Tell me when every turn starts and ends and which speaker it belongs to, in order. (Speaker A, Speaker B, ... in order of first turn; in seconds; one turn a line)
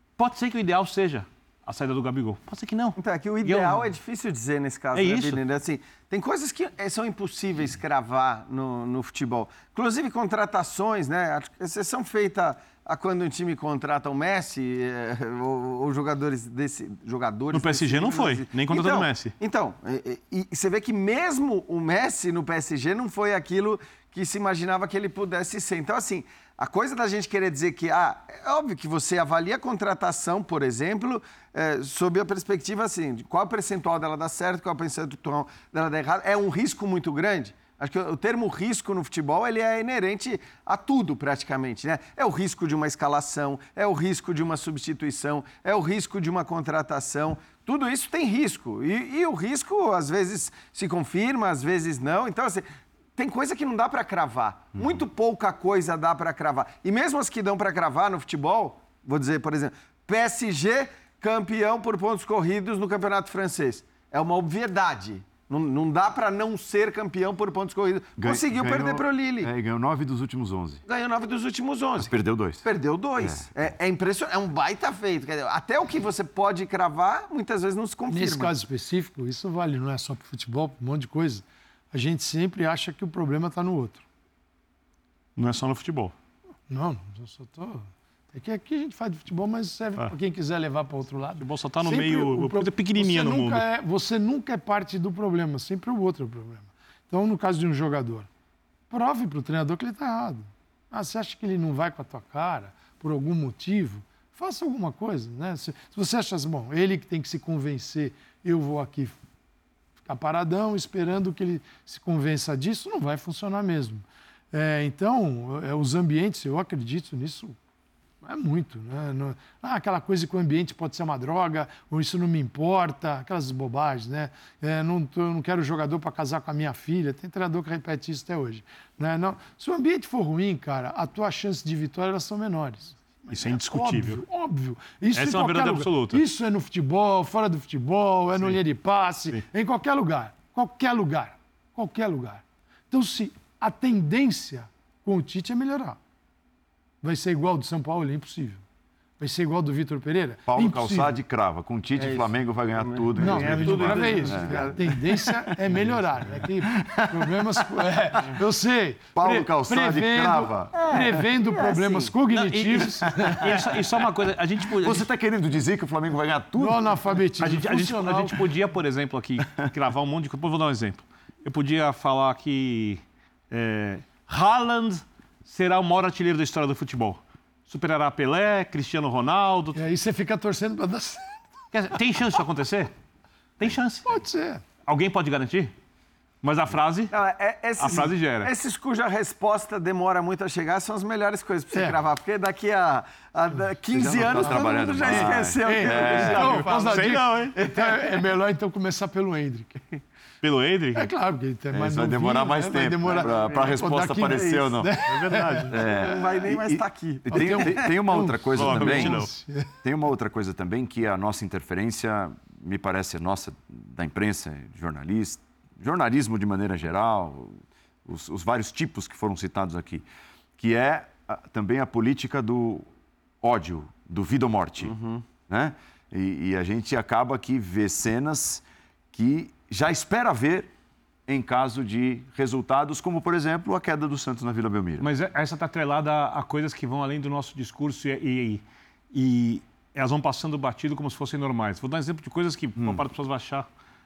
Speaker A: 0.2-3.9
Speaker B: 3.0-69.5
Speaker A: 4.9-5.4
Speaker A: 17.5-19.3
Speaker C: 54.8-55.0
Speaker C: 68.2-70.8
Speaker B: 70.9-78.5
Speaker C: 72.0-72.7
Speaker C: 73.2-73.5
Speaker D: 78.1-84.0
Speaker A: 85.4-86.1
Speaker D: 86.7-98.3
Speaker A: 91.4-93.6
Speaker D: 98.9-109.2
Speaker D: 110.0-117.5
Speaker D: 118.2-146.0
Speaker A: 133.3-134.2
Speaker A: 135.1-136.2
Speaker D: 147.0-148.6
Speaker D: 149.2-151.2
Speaker C: 150.5-157.8
Speaker B: 151.9-154.8
Speaker D: 153.2-163.5
Speaker C: 159.1-161.2
Speaker B: 160.9-162.1
Speaker A: 162.3-165.1
Speaker C: 163.1-163.7
Speaker C: 164.7-166.9
Speaker D: 166.6-168.4
Speaker A: 167.4-179.8
Speaker D: 179.7-181.4
Speaker A: 181.7-182.9
Speaker A: 183.6-184.1
Speaker D: 184.1-184.6
Speaker A: 184.8-185.7
Speaker A: 186.4-187.1
Speaker B: 187.1-197.0
Speaker A: 187.8-188.5
Speaker D: 191.7-192.0
Speaker C: 193.9-196.6
Speaker D: 194.4-199.8
Speaker A: 196.1-197.6
Speaker B: 197.6-198.0
Speaker A: 200.4-201.1
Speaker D: 200.9-206.1
Speaker C: 201.7-204.9
Speaker B: 203.1-204.7
Speaker A: 205.1-205.7
Speaker C: 205.7-209.3
Speaker B: 205.8-207.9
Speaker D: 207.3-209.7
Speaker A: 208.6-209.3
Speaker C: 209.8-220.1
Speaker C: 220.6-222.9
Speaker C: 223.4-224.9
Speaker B: 224.8-225.2
Speaker C: 225.5-230.7
Speaker C: 231.3-235.1
Speaker A: 235.0-243.7
Speaker C: 242.8-243.0